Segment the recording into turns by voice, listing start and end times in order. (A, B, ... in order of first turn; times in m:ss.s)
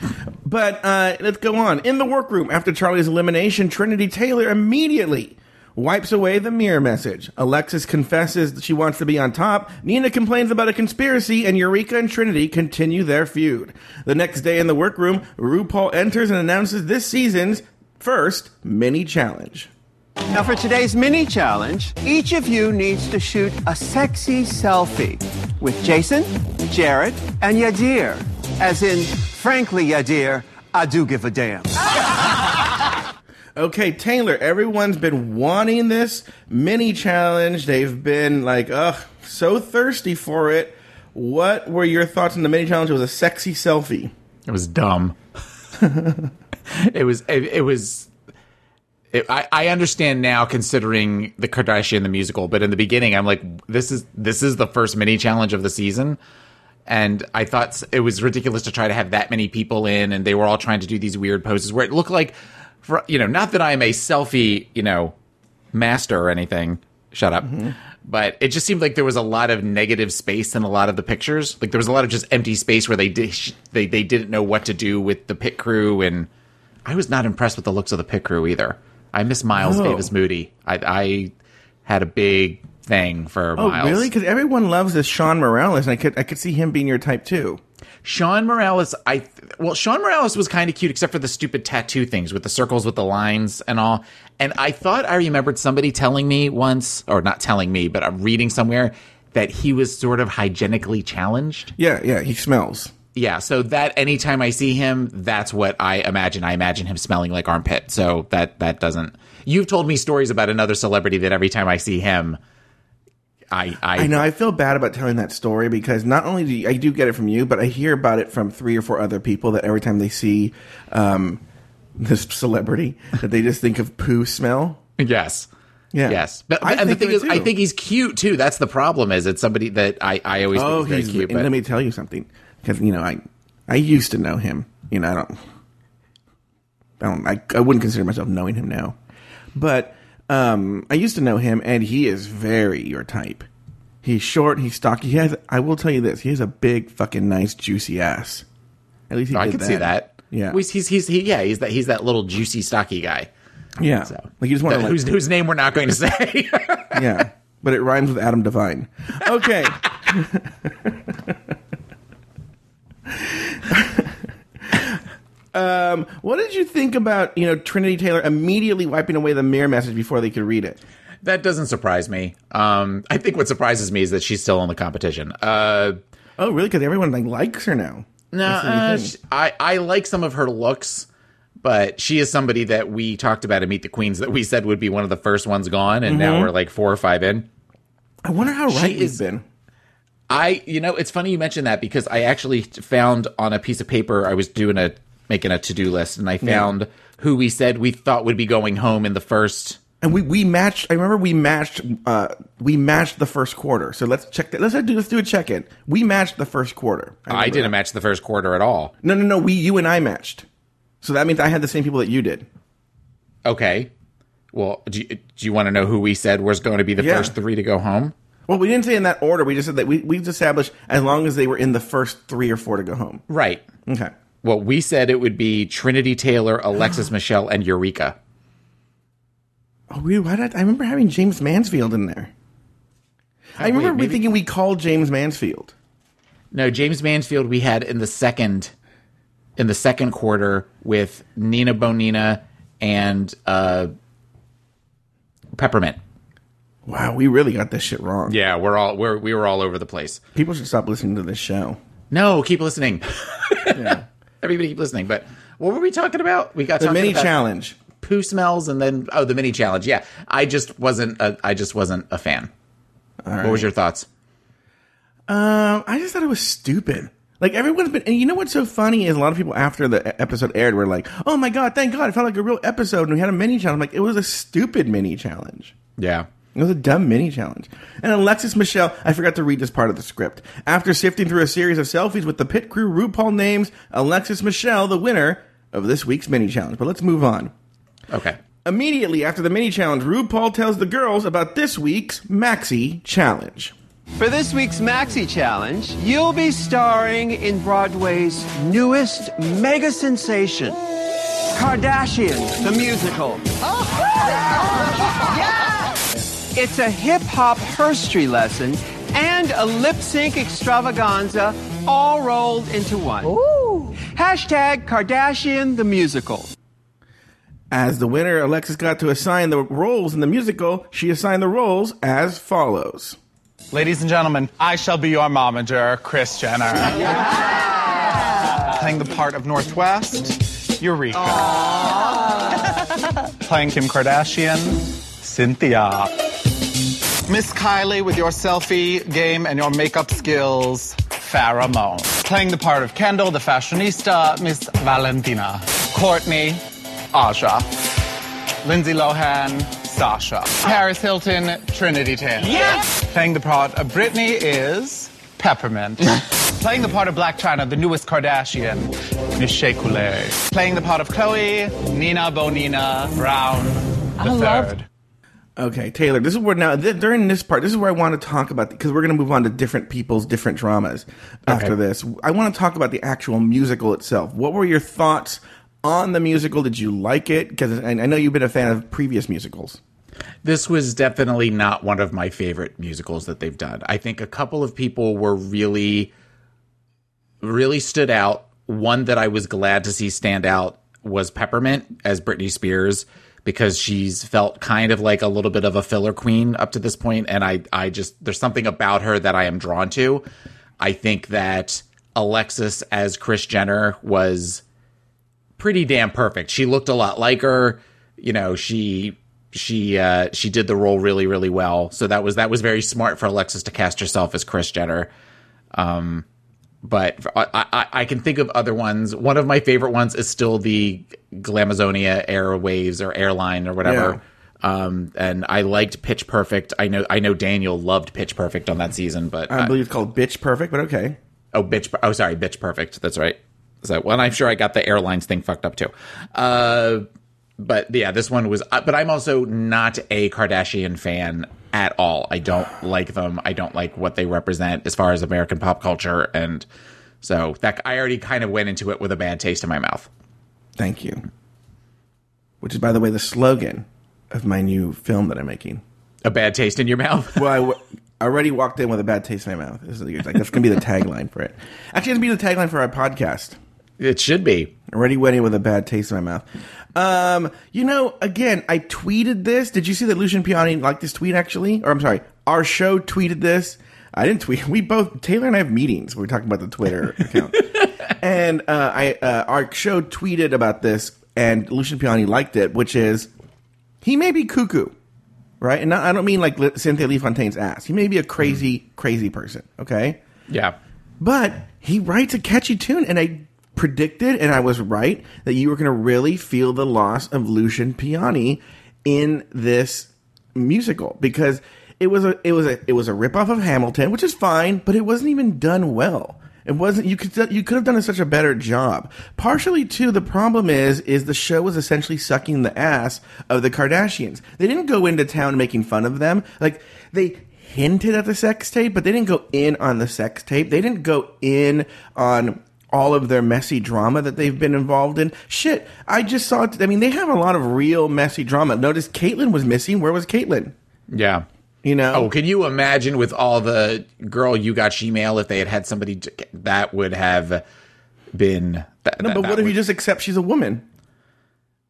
0:00.4-0:19.7 A
0:20.3-0:31.8 B
0:33.6-0:44.1 A
0:44.5-0:45.2 C
0:45.8-0:46.3 A
0:46.7-0:48.1 C
0:49.1-0:56.2 C
0:56.9-1:05.1 C
1:05.7-1:16.3 C
1:07.4-1:07.7 A
1:16.8-1:21.3 C
1:19.5-1:20.1 A
1:21.8-1:24.1 C
1:23.6-1:27.6 A
1:28.0-1:41.7 C
1:41.8-1:42.9 A
1:43.1-1:52.4 C
1:53.5-1:54.2 C
1:53.9-2:01.4 A
2:02.0-2:04.8 A
2:05.0-2:05.5 C
2:05.9-2:07.5 A
2:06.0-2:11.5 C
2:10.5-2:15.4 A
2:17.0-2:19.0 A
2:19.5-2:23.5 A
2:24.0-2:28.4 A
2:29.1-2:30.6 A
2:29.3-2:33.3 C
2:33.8-2:35.0 A
2:34.1-2:37.1 C
2:36.9-2:41.3 A
2:43.1-2:44.1 A
2:44.7-2:45.0 A
2:45.5-2:50.8 A
2:51.2-2:56.0 C
2:56.4-2:59.1 A
2:58.3-3:01.1 C
3:01.6-3:07.5 C
3:06.0-3:06.5 A
3:08.2-3:09.4 A
3:08.7-3:09.2 C
3:10.3-3:19.8 C
3:16.4-3:16.7 A
3:20.0-3:27.7 A
3:27.3-3:28.9 C
3:29.0-3:30.4 A
3:31.0-3:32.4 A
3:33.4-3:33.9 C
3:34.5-3:38.1 C
3:37.0-3:37.3 A
3:38.5-3:43.2 A
3:43.3-3:43.6 C
3:43.8-3:44.1 A
3:44.4-3:48.2 C
3:49.9-3:52.3 A
3:53.6-3:55.7 A
3:53.6-3:54.3 C
3:56.5-3:58.7 C
3:59.6-4:03.9 C
4:05.5-4:06.0 C
4:06.8-4:08.4 A
4:08.3-4:10.2 C
4:10.3-4:11.8 A
4:12.1-4:17.3 C
4:13.7-4:14.0 A
4:16.8-4:17.8 A
4:18.0-4:22.5 C
4:23.2-4:23.7 A
4:23.4-4:24.1 C
4:25.3-4:35.7 A
4:36.0-4:36.3 C
4:36.5-4:47.5 A
4:48.1-4:48.4 C
4:48.6-4:53.7 A
4:54.2-5:00.8 B
5:01.5-5:05.9 B
5:06.5-5:13.4 B
5:14.0-5:16.5 B
5:17.7-5:23.2 A
5:23.7-5:27.7 D
5:28.5-5:32.8 D
5:33.4-5:36.1 D
5:37.2-5:47.7 D
5:48.6-6:04.8 D
6:05.6-6:19.8 A
6:11.5-6:11.7 C
6:20.4-6:26.1 C
6:27.4-6:40.2 C
6:40.8-6:44.6 C
6:45.6-6:55.1 C
6:55.7-6:56.2 C
6:56.8-7:09.7 C
7:03.8-7:04.2 A
7:09.5-7:11.2 A
7:11.5-7:17.0 C
7:17.6-7:26.6 C
7:27.2-7:30.1 C
7:30.8-7:31.2 A
7:32.6-7:35.8 A
7:36.2-7:37.5 C
7:37.4-7:43.6 A
7:44.0-7:44.7 C
7:44.9-8:03.3 A
8:04.0-8:05.0 A
8:05.6-8:10.2 A
8:10.5-8:10.8 C
8:11.2-8:50.7 A
8:51.1-8:51.4 C
8:51.8-8:52.3 A
8:52.1-8:57.6 C
8:58.3-8:59.8 C
8:59.2-9:00.8 A